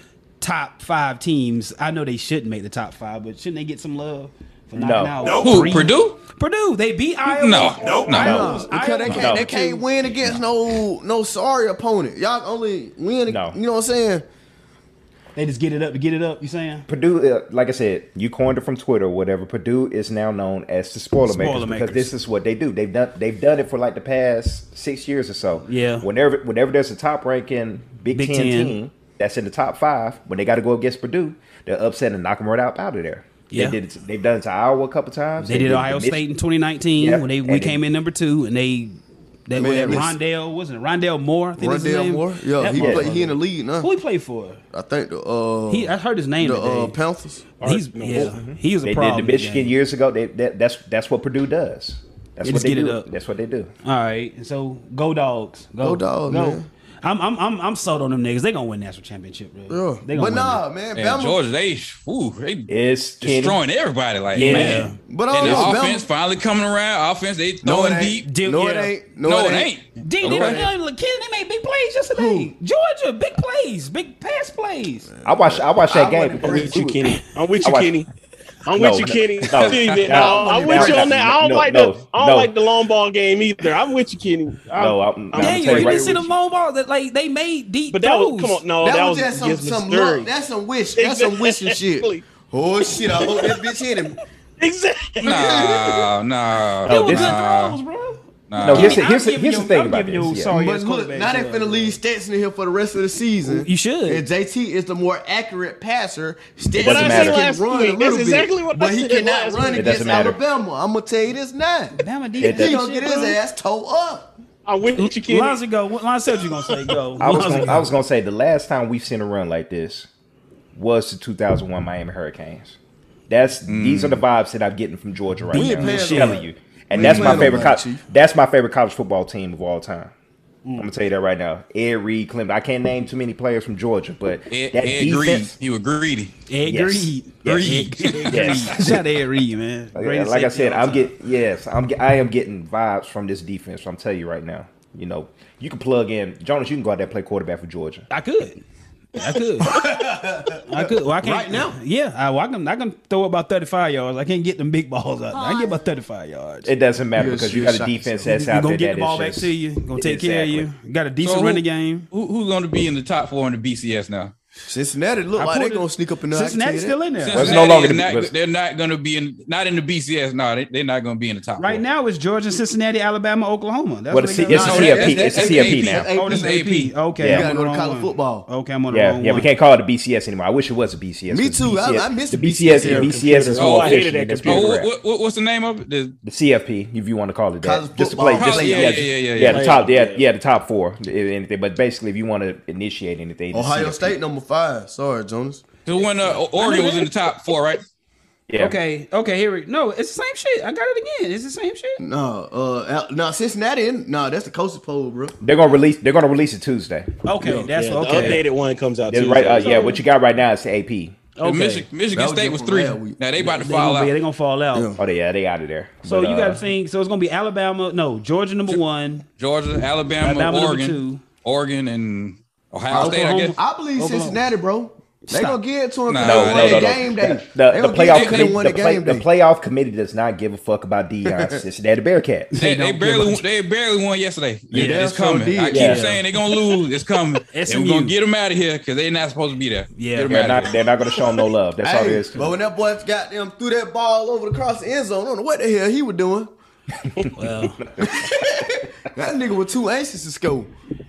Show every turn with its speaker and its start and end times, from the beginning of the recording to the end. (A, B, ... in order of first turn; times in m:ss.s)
0:00.4-0:09.8 A
0:04.7-0:05.3 B
0:05.2-0:06.2 C
0:07.2-0:08.4 C
0:08.0-0:14.2 D
0:08.1-0:09.6 B
0:13.3-0:13.6 B
0:15.3-0:16.8 A
0:16.9-0:36.2 B
0:21.2-0:22.1 A
0:25.6-0:26.1 A
0:28.1-0:28.8 A
0:33.5-0:33.8 A
0:35.4-0:44.6 A
0:37.0-0:37.8 B
0:39.6-0:40.2 D
0:41.6-0:43.9 D
0:42.8-0:43.1 B
0:44.7-0:47.4 D
0:45.7-0:47.0 A
0:47.6-0:48.5 E
0:47.6-0:49.7 A
0:48.2-0:53.7 B
0:52.4-0:53.1 A
0:53.8-1:00.6 A
0:55.8-0:56.6 D
0:59.7-1:01.4 D
1:00.9-1:08.3 C
1:02.7-1:03.6 B
1:04.3-1:05.7 A
1:04.4-1:06.1 D
1:07.6-1:10.7 D
1:08.2-1:08.9 A
1:09.2-1:10.6 C
1:10.0-1:15.1 A
1:12.1-1:12.5 D
1:15.1-1:16.9 D
1:15.2-1:17.1 B
1:16.4-1:18.0 E
1:17.6-1:18.0 B
1:18.6-1:26.2 E
1:18.7-1:22.5 B
1:19.9-1:21.3 D
1:24.7-1:26.3 B
1:25.3-1:28.6 A
1:27.9-1:30.3 E
1:28.8-1:34.2 D
1:30.9-1:32.2 E
1:32.9-1:33.7 E
1:34.6-1:36.0 E
1:35.2-1:37.8 C
1:35.2-1:36.0 D
1:36.8-1:37.4 B
1:36.8-1:42.0 A
1:38.5-1:39.0 C
1:38.6-1:40.5 B
1:40.5-1:54.3 D
1:43.4-1:44.2 A
1:46.8-1:50.3 E
1:46.8-1:47.4 B
1:49.7-1:50.4 B
1:51.9-1:53.4 A
1:52.4-1:52.8 B
1:54.6-1:55.6 E
1:55.0-1:57.9 A
1:57.2-2:00.1 B
2:00.7-2:02.8 B
2:03.3-2:10.1 B
2:03.7-2:04.2 C
2:05.5-2:06.4 A
2:05.5-2:08.0 D
2:07.0-2:07.6 A
2:07.0-2:07.6 C
2:10.8-2:15.5 B
2:14.5-2:16.3 C
2:16.5-2:21.1 A
2:16.6-2:19.0 B
2:17.4-2:18.8 C
2:19.9-2:28.1 B
2:28.1-2:28.6 A
2:29.1-2:29.8 A
2:29.6-2:31.8 D
2:30.5-2:36.7 A
2:36.6-2:40.7 B
2:37.2-2:38.3 D
2:38.2-2:42.1 A
2:41.2-2:44.3 C
2:44.7-2:47.0 D
2:45.4-2:47.5 A
2:47.2-2:51.8 C
2:47.3-2:48.3 B
2:51.6-2:55.3 A
2:54.1-2:56.1 B
2:54.5-2:56.6 D
2:54.6-2:56.9 C
2:56.1-2:59.5 A
2:57.2-2:57.5 B
2:57.2-2:58.5 D
2:58.9-3:04.9 B
3:01.3-3:03.5 D
3:02.7-3:04.7 E
3:03.5-3:06.2 C
3:06.2-3:14.2 B
3:07.6-3:09.2 D
3:08.4-3:09.8 C
3:09.3-3:10.2 E
3:13.5-3:15.6 D
3:15.8-3:17.8 C
3:16.5-3:17.1 A
3:18.5-3:18.8 B
3:18.6-3:22.0 A
3:22.0-3:25.4 D
3:25.4-3:27.1 B
3:27.2-3:28.4 A
3:27.4-3:27.7 D
3:27.7-3:29.8 E
3:29.1-3:31.2 B
3:29.6-3:30.0 A
3:31.4-3:31.9 A
3:31.4-3:34.1 C
3:32.1-3:33.6 D
3:33.6-3:34.9 A
3:34.7-3:35.0 D
3:35.0-3:36.6 B
3:36.0-3:39.2 A
3:39.4-3:43.6 C
3:40.2-3:41.2 A
3:42.9-3:44.4 A
3:42.9-3:49.2 D
3:45.3-3:45.6 A
3:46.1-3:47.0 C
3:46.2-3:52.5 B
3:48.1-3:48.6 C
3:51.3-3:51.6 D
3:52.5-3:53.4 A
3:52.6-4:00.7 C
3:54.7-3:56.0 D
3:54.7-3:55.1 A
3:55.7-3:56.1 B
3:55.7-3:56.2 A
3:57.5-3:58.1 A
3:59.9-4:00.4 A
4:00.2-4:02.5 B
4:01.8-4:06.5 D
4:07.3-4:07.9 A
4:08.0-4:10.7 D